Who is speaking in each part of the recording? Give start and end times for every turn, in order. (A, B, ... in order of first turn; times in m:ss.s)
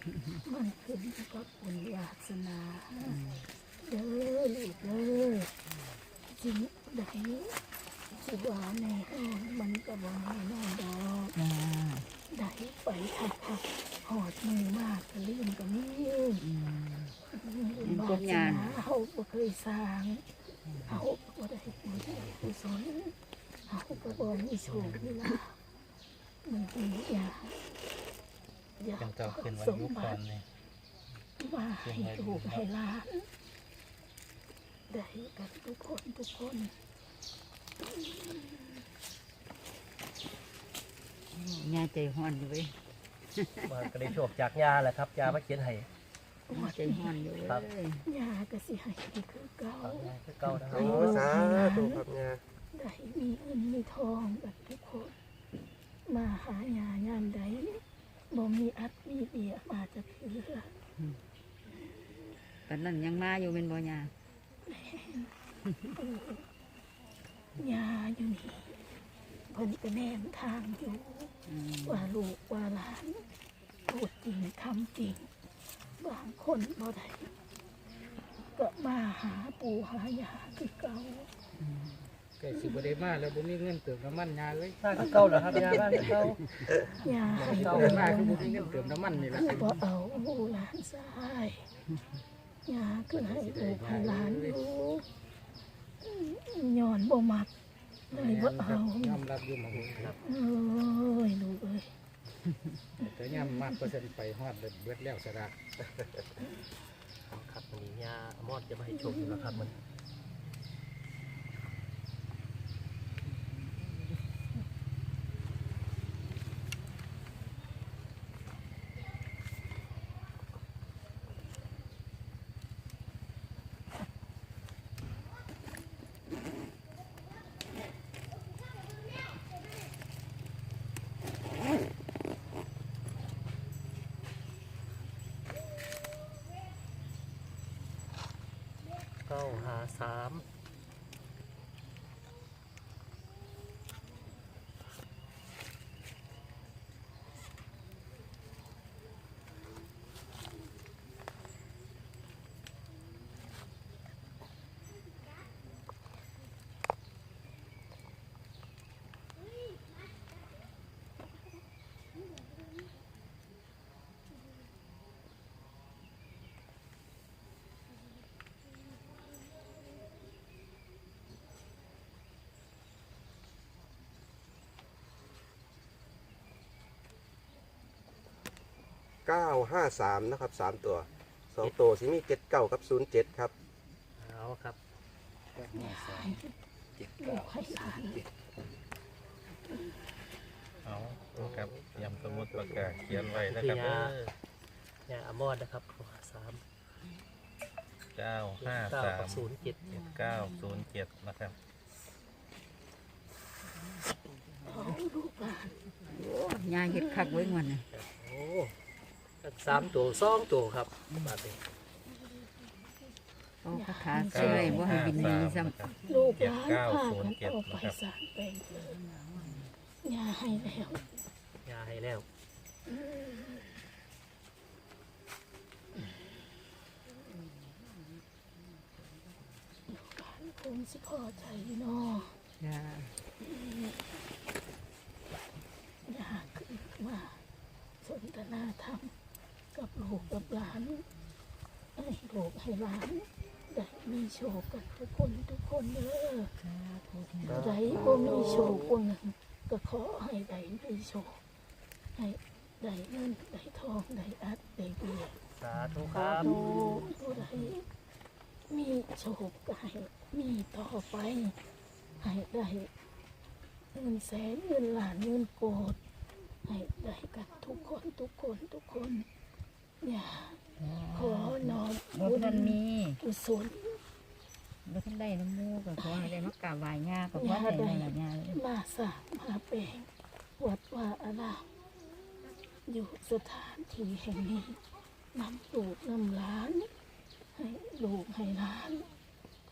0:00.4-0:03.2 A
0:03.1-0:03.5 B
0:03.8-0:05.5 A
0:06.3-0:07.5 A
0:08.1-0:11.4 A
0:11.4-0:12.1 B
0:12.3-0:16.5 A
0:16.4-0:17.2 B
0:17.3-0:20.2 A
0:17.8-0:18.8 B
0:20.7-0:21.0 B
0:20.8-0:23.2 A
0:23.7-0:25.6 A
0:26.4-0:27.6 A
0:28.8-0:30.2 A
0:29.0-0:30.4 C
0:31.4-0:33.3 A
0:31.8-0:32.7 C
0:34.9-0:36.7 A
0:38.1-0:38.5 A
0:41.3-0:42.7 B
0:43.3-0:43.9 B
0:43.6-0:45.9 D
0:46.5-0:47.2 A
0:46.5-0:48.0 B
0:47.4-0:47.7 D
0:48.0-0:50.1 A
0:49.8-0:51.4 D
0:50.7-0:52.0 A
0:50.7-0:52.4 E
0:52.7-0:55.2 A
0:56.1-1:00.7 A
1:02.7-1:04.1 B
1:04.6-1:05.3 A
1:06.0-1:06.5 A
1:07.6-1:08.8 A
1:09.5-1:11.3 A
1:11.5-1:12.1 B
1:11.8-1:13.2 A
1:13.9-1:15.3 A
1:16.0-1:17.3 A
1:18.5-1:21.3 A
1:21.6-1:22.0 B
1:22.4-1:26.2 F
1:24.8-1:26.5 D
1:27.0-1:28.5 A
1:27.4-1:29.7 F
1:27.4-1:28.2 D
1:29.4-1:31.7 A
1:32.7-1:35.0 A
1:33.1-1:34.6 F
1:36.0-1:37.5 A
1:38.1-1:39.2 A
1:38.1-1:40.2 F
1:39.7-1:40.2 D
1:40.2-1:41.9 A
1:43.0-1:45.6 F
1:47.3-1:49.8 D
1:48.9-1:49.6 A
2:19.3-2:20.4 D
2:59.2-3:03.5 E
3:04.2-3:04.8 D
3:05.6-3:06.4 F
3:05.7-3:06.5 A
3:07.0-3:08.2 F
3:07.2-3:08.2 A
3:10.8-3:14.2 C
3:11.3-3:14.3 D
3:15.1-3:16.6 D
3:18.2-3:21.6 C
3:18.6-3:19.8 D
3:24.6-3:25.7 A
3:26.1-3:27.8 B
3:27.0-3:27.6 A
3:27.9-3:28.7 D
3:29.4-3:31.6 D
3:33.6-3:35.9 B
3:33.7-3:35.4 A
3:34.3-3:38.0 C
3:36.0-3:39.0 A
3:39.1-3:39.7 B
3:40.0-3:41.1 A
3:41.6-3:42.3 D
3:42.9-3:43.7 A
3:49.9-3:52.4 A
3:52.6-3:53.2 B
3:53.4-3:53.9 A
3:56.1-3:57.4 A
3:58.0-3:59.1 A
3:59.7-4:01.0 A
4:02.0-4:06.5 A
4:06.6-4:08.2 B
4:07.5-4:11.4 A
4:12.2-4:15.4 A
4:15.6-4:16.6 D
4:15.8-4:17.1 B
4:16.5-4:17.8 A
4:18.7-4:21.6 A
4:22.2-4:22.9 A
4:23.9-4:26.0 A
4:26.6-4:29.3 A
4:30.0-4:30.6 A
4:30.8-4:33.2 B
4:31.1-4:34.0 A
4:34.9-4:38.6 B
4:37.4-4:40.1 A
4:40.6-4:41.7 A
4:42.9-4:44.8 A
4:45.3-4:46.9 A
4:47.6-4:49.1 A